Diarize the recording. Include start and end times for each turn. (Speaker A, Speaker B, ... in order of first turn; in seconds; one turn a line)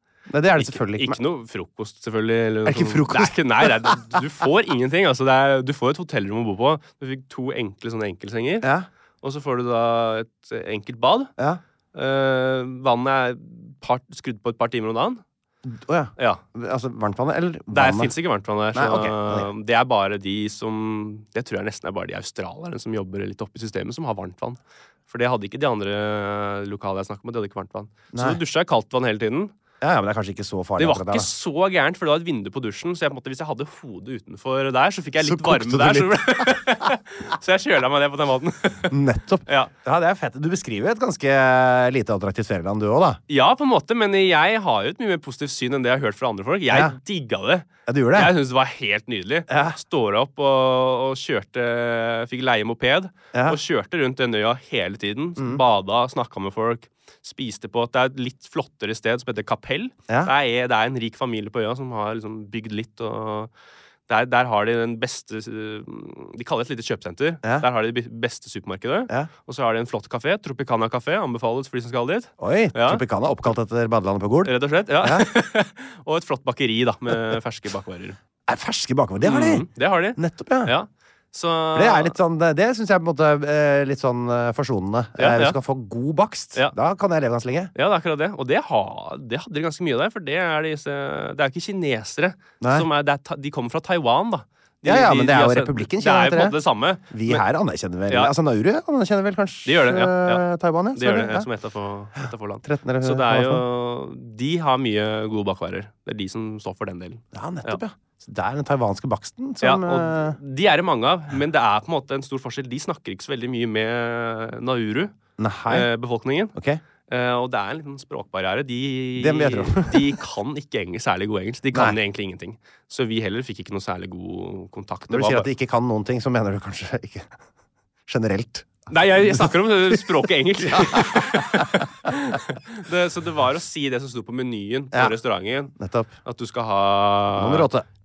Speaker A: 0.3-1.2
Speaker B: 0.6-8.7
Speaker A: 2.7-4.0
Speaker A: 8.6-8.9
Speaker B: 9.2-11.3
Speaker B: 11.9-15.2
Speaker A: 15.7-18.1
Speaker B: 17.7-29.5
Speaker A: 18.7-19.5
Speaker A: 28.1-28.4
Speaker A: 29.8-31.3
Speaker B: 30.8-39.7
Speaker A: 35.2-36.9
Speaker A: 38.9-43.2
Speaker B: 43.3-63.5
Speaker A: 46.7-47.0
Speaker A: 47.9-48.3
Speaker A: 49.5-49.8
Speaker A: 53.3-53.6
Speaker B: 64.1-73.0
Speaker A: 72.4-75.3
Speaker B: 74.4-78.2
Speaker A: 78.5-80.7
Speaker B: 79.2-82.1
Speaker A: 81.7-87.7
Speaker B: 85.2-85.6
Speaker B: 87.8-97.5
Speaker A: 92.6-92.9
Speaker A: 94.8-96.6
Speaker A: 97.1-101.5
Speaker B: 98.1-98.3
Speaker B: 99.7-100.4
Speaker B: 101.0-107.8
Speaker A: 102.7-103.6
Speaker A: 107.3-110.4
Speaker B: 109.6-115.1
Speaker A: 115.4-115.9
Speaker B: 115.7-116.5
Speaker A: 116.5-116.8
Speaker B: 117.1-125.5
Speaker A: 119.2-120.1
Speaker A: 125.1-127.3
Speaker A: 128.1-131.7
Speaker B: 128.9-135.7
Speaker A: 135.8-136.1
Speaker B: 136.3-137.7
Speaker A: 137.3-137.9